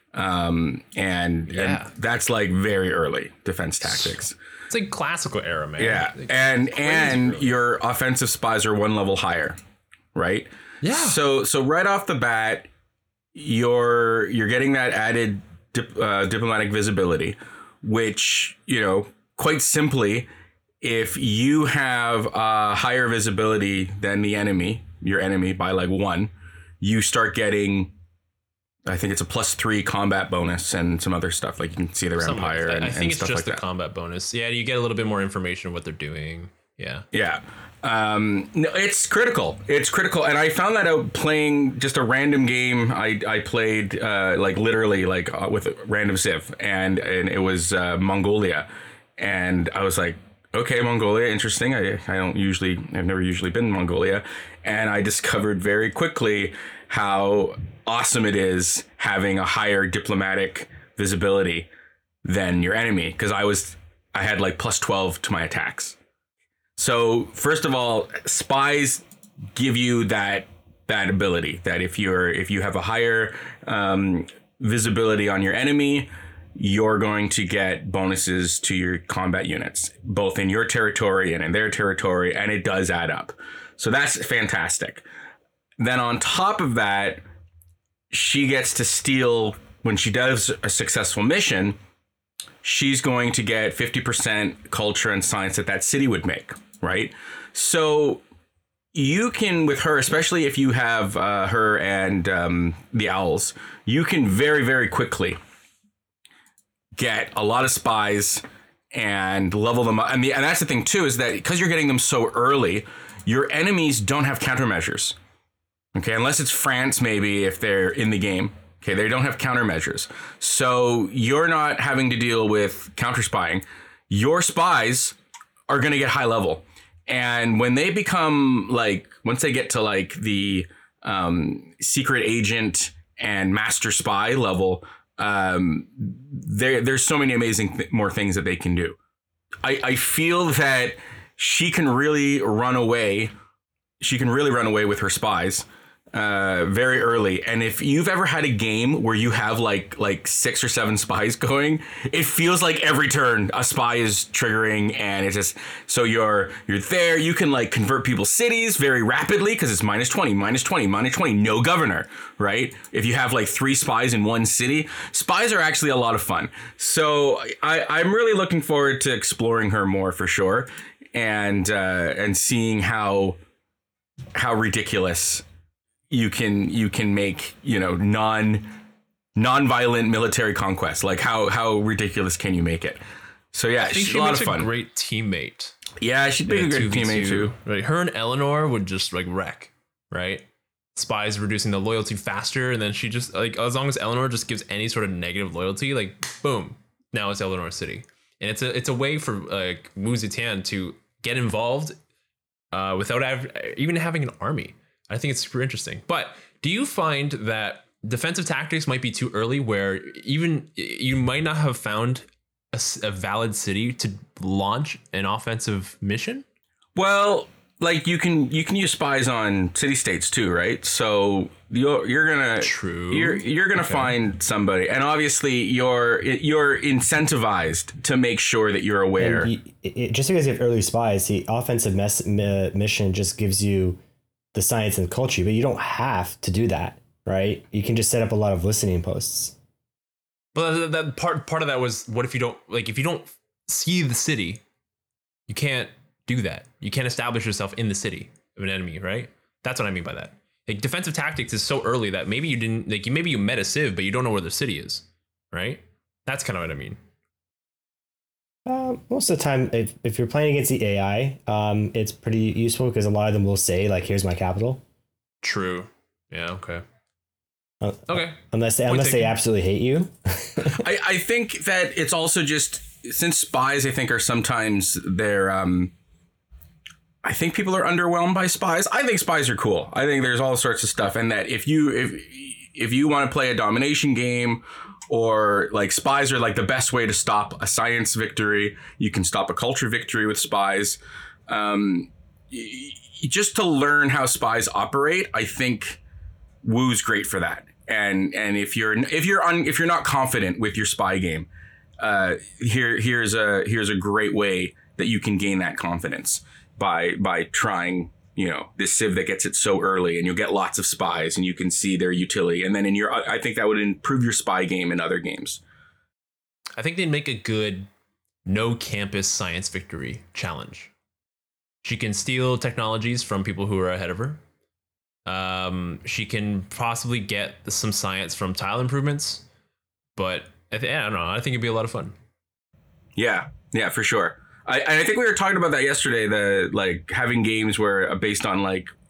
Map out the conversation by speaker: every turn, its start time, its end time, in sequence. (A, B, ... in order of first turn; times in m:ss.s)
0:00.1-0:04.3 A
0:01.5-0:01.9 B
0:03.8-0:04.2 B
0:04.7-0:07.5 B
0:05.8-0:09.6 A
0:10.2-0:12.7 A
0:10.8-0:11.2 B
0:13.4-0:20.3 A
0:20.8-0:27.9 A
0:28.9-0:33.6 A
0:32.2-0:37.0 B
0:37.1-1:01.7 A
1:02.2-1:06.0 A
1:06.8-1:09.0 A
1:09.6-1:25.0 A
1:25.8-1:27.2 A
1:28.1-1:31.8 A
1:32.6-1:38.2 A
1:38.9-1:45.4 A
1:47.0-1:55.2 A
1:55.9-2:05.2 A
2:05.7-2:19.0 A
2:19.6-2:23.3 A
2:24.0-2:53.4 A
2:54.4-2:55.4 A
2:56.1-2:58.8 A
2:59.4-3:03.0 A
3:03.5-3:04.7 A
3:03.8-3:05.8 B
3:06.0-3:07.5 A
3:06.5-3:22.0 B
3:22.7-3:36.4 B
3:37.0-3:49.5 A
3:42.6-3:44.1 B
3:49.2-3:54.0 C
3:54.5-3:59.6 C
4:00.5-4:04.6 B
4:05.5-4:17.0 B
4:18.7-4:24.8 C
4:25.4-4:26.8 B
4:27.8-4:30.8 C
4:28.1-4:29.4 B
4:30.6-4:35.9 A
4:37.2-4:56.0 A
4:56.6-5:01.5 A
5:02.0-5:15.6 A
5:16.8-5:17.9 B
5:18.5-5:20.9 B
5:21.8-5:24.4 B
5:25.3-5:29.4 B
5:30.2-5:32.2 B
5:33.2-5:38.9 A